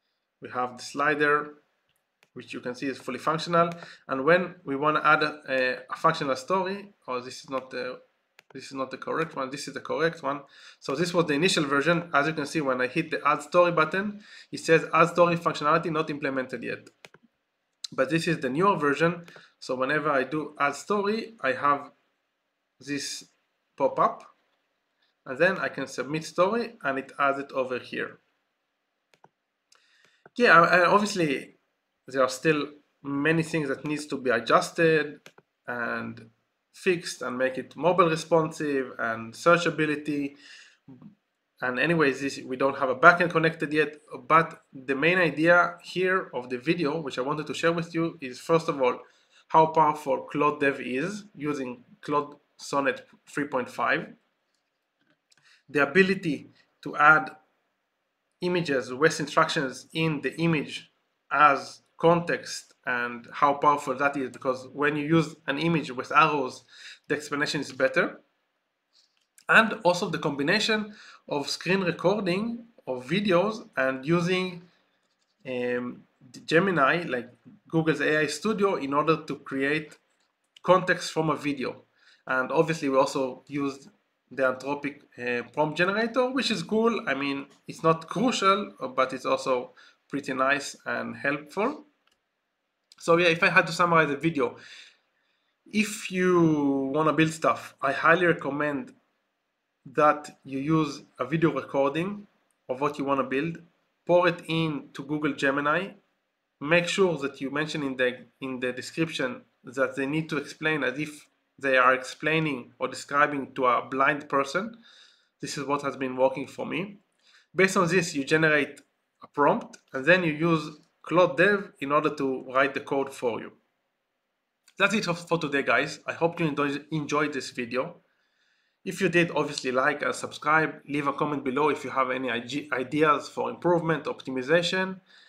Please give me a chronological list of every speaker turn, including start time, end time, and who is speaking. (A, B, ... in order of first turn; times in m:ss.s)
0:00.4-0:01.6 A
0:02.3-0:08.0 A
0:08.5-0:16.9 A
0:17.9-0:21.9 A
0:22.8-0:24.3 A
0:25.2-0:28.2 A
0:30.4-0:40.4 A
0:41.6-0:54.2 A
0:55.7-0:57.3 A
0:58.4-1:08.2 A
1:09.5-1:14.7 A
1:15.4-1:20.0 A
1:20.6-1:31.9 A
1:33.0-1:34.6 A
1:35.7-1:38.9 A
1:39.8-1:46.0 A
1:46.6-1:54.8 A
1:55.4-1:57.0 A
1:57.5-2:03.6 A
2:04.8-2:08.0 A
2:08.8-2:15.0 A